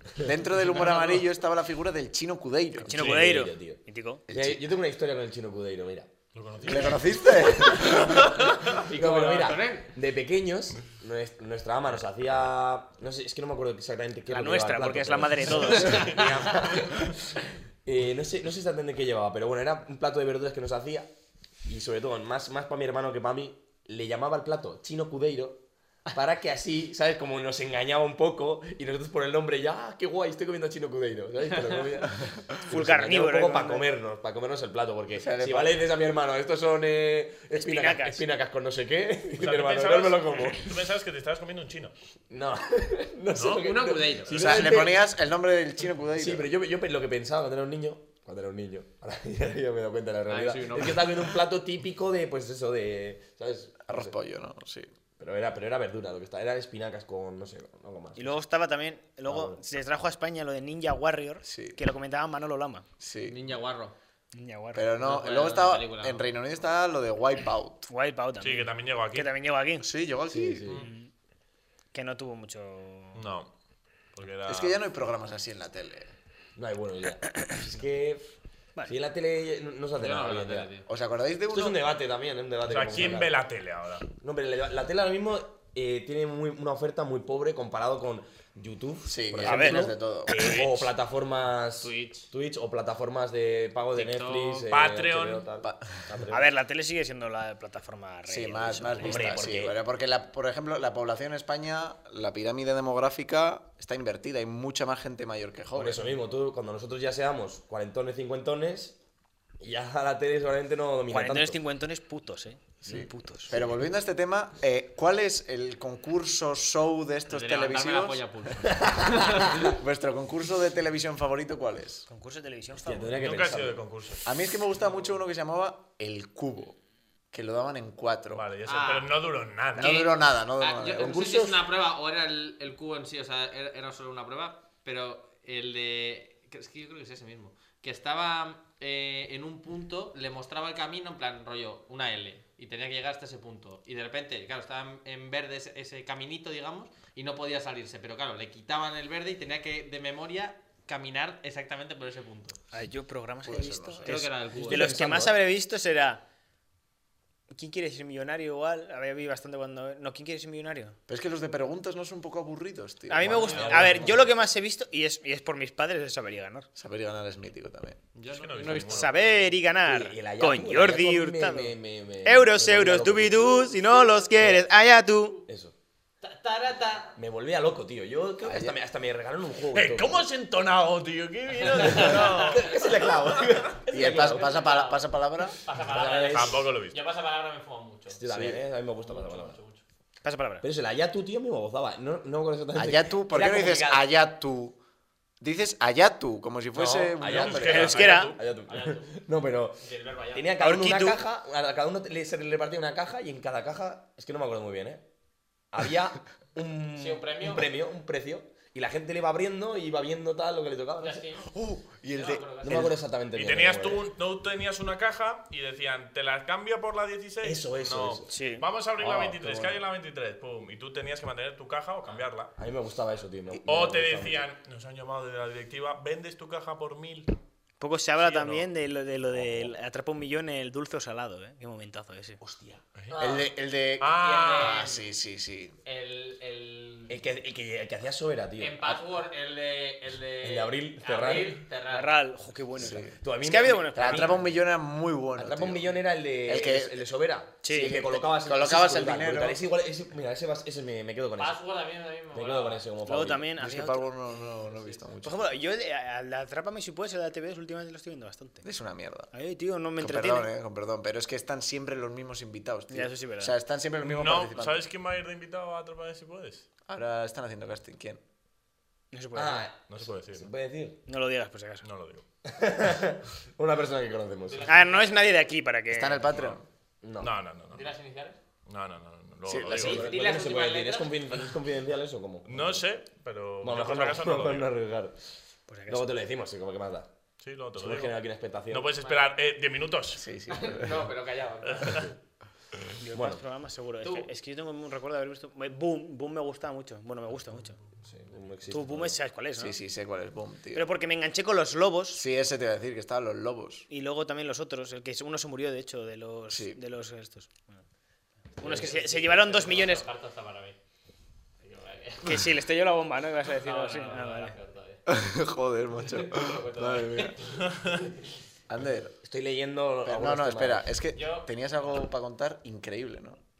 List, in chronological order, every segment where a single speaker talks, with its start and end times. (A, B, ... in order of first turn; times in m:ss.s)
0:00.2-0:03.1 A
0:00.7-0:01.2 B
0:02.8-0:04.2 C
0:02.9-0:06.1 D
0:04.3-0:04.6 A
0:06.3-0:07.3 B
0:06.6-0:08.2 A
0:07.7-0:08.0 D
0:08.2-0:08.6 B
0:08.6-0:21.1 D
0:08.7-0:09.9 E
0:14.3-0:16.3 C
0:16.0-0:16.5 B
0:21.6-0:40.8 D
0:32.7-0:33.8 C
0:35.2-0:35.8 A
0:37.5-0:38.2 C
0:39.4-0:41.9 B
0:42.3-0:45.1 D
0:43.3-0:43.7 B
0:43.6-0:44.4 E
0:44.3-0:46.4 A
0:46.2-0:54.1 D
0:50.3-0:51.1 E
0:53.9-0:54.9 A
0:55.2-0:58.4 D
0:58.2-1:02.8 C
0:59.2-0:59.6 D
1:01.4-1:01.8 A
1:03.0-1:03.4 A
1:03.2-1:04.0 E
1:04.3-1:05.0 C
1:04.7-1:07.9 A
1:05.0-1:06.3 E
1:07.9-1:09.9 C
1:08.4-1:09.3 B
1:09.8-1:10.8 A
1:10.3-1:10.8 D
1:10.8-1:11.1 C
1:11.9-1:13.2 C
1:13.1-1:13.5 B
1:14.1-1:14.8 B
1:14.5-1:16.1 A
1:16.6-1:18.3 D
1:18.8-1:20.7 D
1:20.0-1:20.9 E
1:20.9-1:21.8 A
1:21.5-1:23.4 D
1:22.6-1:24.1 B
1:24.2-1:36.5 D
1:29.1-1:30.5 A
1:29.4-1:29.9 C
1:30.3-1:30.9 B
1:31.8-1:32.3 E
1:33.9-1:34.6 E
1:34.6-1:35.5 B
1:36.3-1:39.4 C
1:38.3-1:46.1 A
1:39.0-1:39.8 D
1:45.7-1:49.0 D
1:49.6-1:51.6 D
1:51.1-1:53.6 C
1:52.8-2:02.1 A
1:57.3-1:59.6 E
1:58.9-1:59.6 D
2:02.1-2:03.3 C
2:02.8-2:03.8 D
2:03.2-2:04.3 B
2:04.2-2:06.8 A
2:07.3-2:08.4 A
2:08.3-2:10.0 B
2:08.6-2:09.1 E
2:09.8-2:11.4 A
2:09.8-2:32.6 E
2:11.0-2:11.6 D
2:32.7-2:36.2 C
2:33.4-2:34.2 A
2:34.0-2:34.9 E
2:34.5-2:35.4 D
2:37.5-2:41.0 C
2:41.1-2:44.2 A
2:43.1-2:46.7 C
2:43.2-2:44.2 E
2:43.5-2:44.2 D
2:46.8-2:48.0 A
2:48.1-2:49.3 E
2:48.3-2:49.2 B
2:48.9-2:55.4 C
2:49.8-2:53.6 D
2:53.6-2:54.6 E
2:55.4-2:55.7 D
2:56.2-2:57.2 E
2:57.2-3:00.3 D
2:58.4-2:58.7 A
2:59.7-3:03.6 B
3:01.6-3:02.8 E
3:01.8-3:04.6 D
3:03.9-3:05.6 A
3:04.0-3:08.2 E
3:05.7-3:06.7 D
3:06.3-3:07.0 B
3:08.1-3:09.6 D
3:08.3-3:08.6 A
3:09.0-3:09.8 E
3:10.2-3:10.6 C
3:10.6-3:14.1 D
3:12.7-3:14.8 A
3:15.4-3:18.0 A
3:16.8-3:19.8 D
3:17.3-3:18.4 B
3:17.5-3:18.4 C
3:18.7-3:19.2 E
3:19.8-3:20.5 E
3:20.3-3:25.0 D
3:20.6-3:21.2 C
3:25.7-3:31.2 D
3:26.9-3:27.7 E
3:31.0-3:31.5 E
3:31.4-3:32.9 A
3:32.1-3:32.9 E
3:32.6-3:34.0 D
3:33.3-3:42.5 B
3:37.4-3:38.3 D
3:38.3-3:38.7 C
3:39.0-3:39.8 D
3:42.6-3:44.4 D
3:43.6-3:47.4 B
3:47.8-3:52.4 C
3:48.2-3:48.7 B
3:49.3-3:49.7 D
3:52.4-3:53.5 D
3:53.1-3:55.8 A
3:54.0-3:54.9 B
3:54.1-3:55.0 E
3:55.8-3:57.2 E
3:57.1-3:59.0 D
3:58.6-4:02.1 E
4:00.4-4:01.6 D
4:01.9-4:04.4 C
4:02.8-4:03.2 A
4:03.2-4:04.4 D
4:03.9-4:07.0 A
4:05.4-4:11.6 D
4:07.6-4:08.0 C
4:07.6-4:09.6 A
4:11.4-4:12.8 E
4:12.3-4:13.5 D
4:13.0-4:14.1 C
4:13.6-4:15.4 A
4:14.3-4:15.0 E
4:15.2-4:18.6 C
4:18.6-4:19.3 A
4:19.3-4:20.5 C
4:20.0-4:24.8 A
4:22.9-4:23.5 C
4:24.0-4:26.6 B
4:26.9-4:28.2 A
4:29.1-4:29.7 C
4:29.3-4:31.0 D
4:29.9-4:30.5 B
4:31.1-4:31.8 C
4:31.8-4:32.2 B
4:32.4-4:34.7 D
4:34.5-4:35.2 E
4:34.6-4:36.3 C
4:35.9-4:36.6 A
4:36.3-4:36.6 B
4:37.0-4:37.3 D
4:37.2-4:37.9 B
4:37.7-4:38.4 E
4:38.7-4:40.0 B
4:39.5-4:39.9 A
4:39.7-4:42.8 D
4:39.8-4:41.3 E
4:42.4-4:44.7 B
4:43.6-4:45.2 D
4:45.7-4:46.1 C
4:45.9-4:47.1 D
4:47.4-4:50.2 B
4:47.7-4:48.9 D
4:50.2-4:51.1 A
4:50.5-4:52.1 E
4:51.7-4:52.1 B
4:53.0-4:57.8 C
4:53.1-4:53.4 D
4:58.0-4:59.2 D
4:58.7-4:59.8 C
4:59.6-5:00.8 A
5:00.7-5:02.2 C
5:02.1-5:03.8 A
5:03.9-5:07.8 C
5:06.5-5:06.8 A
5:08.6-5:10.1 C
5:08.6-5:09.0 D
5:08.6-5:10.8 E
5:11.6-5:12.5 E
5:12.2-5:14.5 C
5:13.5-5:15.0 E
5:15.1-5:17.4 A
5:16.1-5:18.2 E
5:18.7-5:19.2 A
5:19.2-5:20.9 D
5:20.0-5:23.4 A
5:21.1-5:21.5 E